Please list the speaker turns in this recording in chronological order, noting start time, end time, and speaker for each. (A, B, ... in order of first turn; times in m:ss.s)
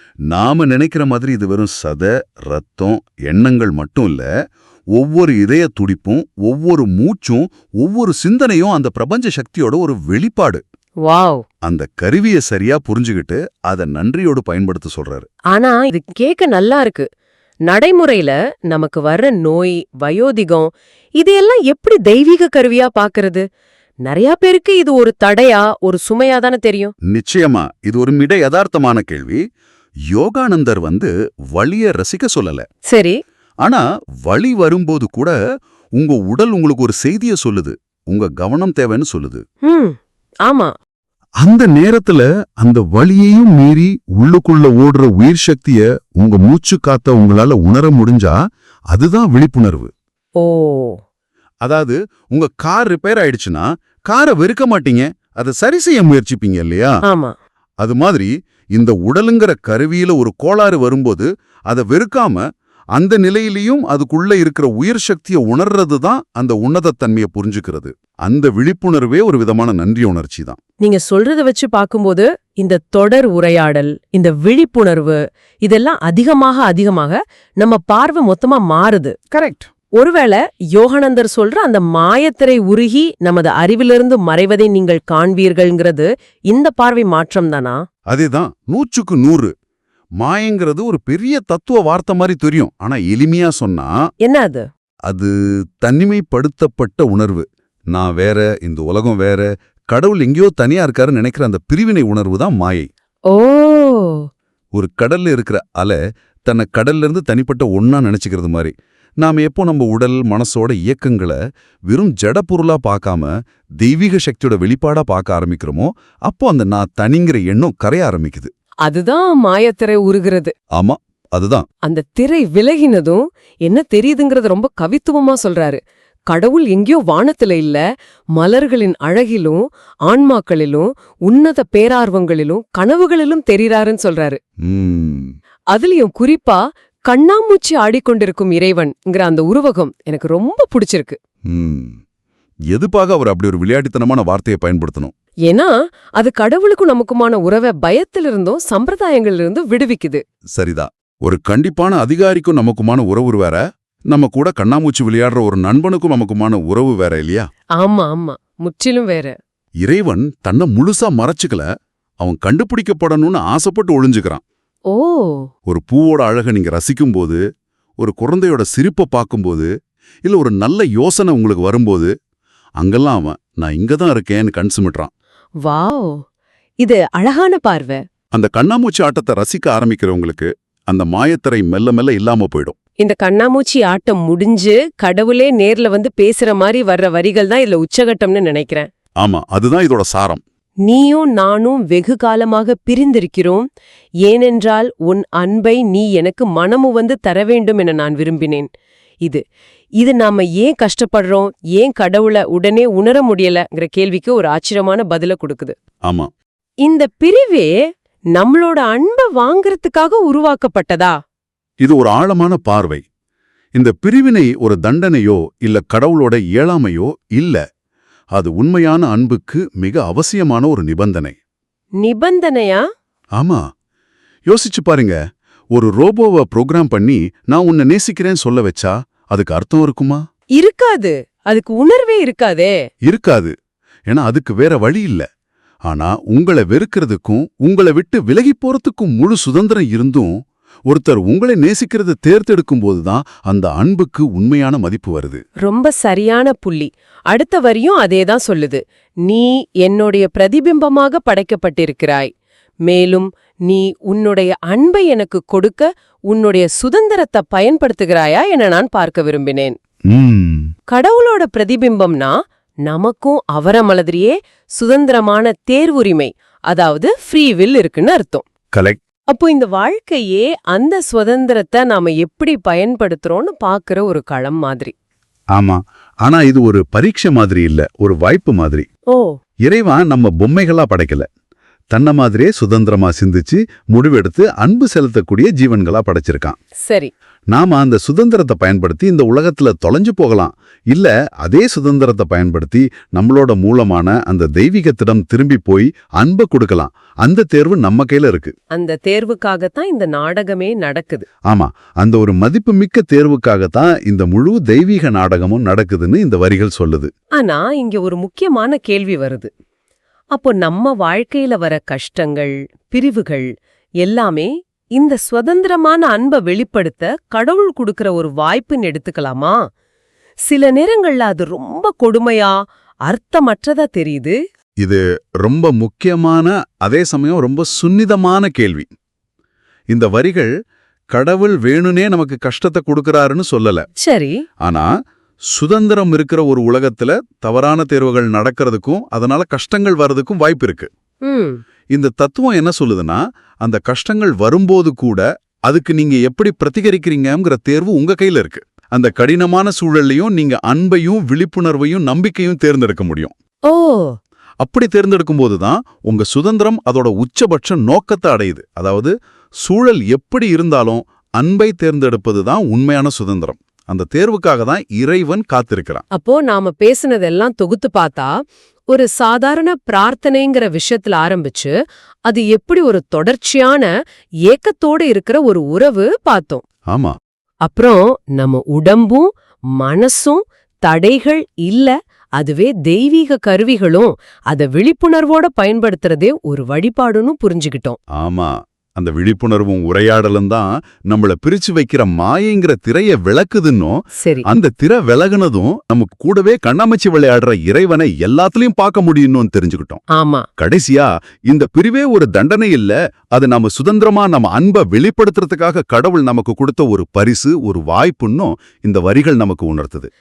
0:00.3-0:04.3 A
0:05.0-0:10.6 A
0:11.0-0:11.4 B
0:11.6-0:15.3 A
0:15.5-0:17.1 B
0:17.7-0:23.4 B
0:24.1-0:26.9 B
0:27.1-0:29.4 A
0:30.1-0:32.6 A
0:32.9-0:33.2 B
0:33.6-0:35.4 A
0:36.0-0:39.4 A
0:39.7-0:40.0 B
0:40.5-0:40.7 B
0:41.4-0:48.4 A
0:48.9-0:49.9 A
0:50.4-0:51.0 B
0:51.6-0:56.9 A
0:57.1-0:57.3 B
0:57.8-1:02.4 A
1:03.0-1:10.6 A
1:10.8-1:27.8 B
1:28.1-1:29.5 A
1:30.2-1:33.9 A
1:34.2-1:34.6 B
1:35.1-1:42.9 A
1:43.3-1:44.2 B
1:44.7-1:51.4 A
1:51.9-1:53.3 A
1:53.8-1:58.5 A
1:58.9-2:00.5 B
2:00.7-2:01.7 A
2:01.8-2:05.8 B
2:06.3-2:07.8 B
2:08.4-2:14.4 B
2:14.6-2:15.3 A
2:15.7-2:21.2 B
2:21.5-2:22.0 A
2:22.7-2:25.1 A
2:25.5-2:30.2 B
2:30.6-2:33.6 A
2:34.1-2:37.4 A
2:37.8-2:39.4 B
2:39.8-2:41.7 A
2:42.2-2:44.4 A
2:44.9-2:45.5 B
2:45.7-2:47.4 A
2:48.0-2:49.7 A
2:50.2-2:52.1 A
2:52.8-2:55.1 A
2:55.6-2:56.2 B
2:56.8-2:58.0 B
2:58.3-3:02.8 A
3:03.0-3:08.9 B
3:09.2-3:10.4 A
3:10.9-3:13.7 B
3:14.2-3:18.7 B
3:20.0-3:25.8 B
3:26.8-3:27.7 B
3:28.4-3:31.2 B
3:31.8-3:33.0 A
3:33.8-3:37.6 A
3:38.4-3:41.4 A
3:42.0-3:42.8 B
3:43.4-3:43.6 A
3:44.5-3:45.2 A
3:45.7-3:50.2 A
3:50.6-3:52.8 B
3:53.0-3:53.5 A
3:54.1-3:55.3 A
3:55.9-4:00.3 A
4:00.9-4:05.4 A
4:05.6-4:12.3 B
4:12.9-4:19.8 B
4:20.1-4:20.7 A
4:20.9-4:28.5 B
4:28.7-4:29.0 A
4:29.3-4:34.9 B
4:35.5-4:38.9 A
4:39.6-4:41.3 A
4:41.9-4:46.6 A
4:47.5-4:58.5 A
4:58.7-5:01.3 B
5:01.5-5:07.1 A
5:07.4-5:09.5 B
5:10.3-5:13.5 B
5:14.0-5:19.6 B
5:20.5-5:22.5 B
5:23.1-5:24.4 B
5:24.8-5:28.9 A
5:29.9-5:30.5 A
5:31.1-5:33.9 A
5:34.0-5:34.4 B
5:34.6-5:34.9 A
5:35.5-5:40.9 A
5:41.3-5:41.6 B
5:41.9-5:53.3 A
5:53.7-5:54.2 B
5:54.6-5:59.1 A
5:59.6-6:06.0 A
6:06.1-6:08.3 B
6:08.9-6:11.7 B
6:12.3-6:13.9 B
6:14.5-6:16.6 B
6:17.7-6:19.3 B
6:19.8-6:28.0 B
6:28.2-6:34.0 A
6:34.2-6:34.5 B
6:34.5-6:40.0 A
6:40.1-6:40.5 B
6:40.6-6:50.1 A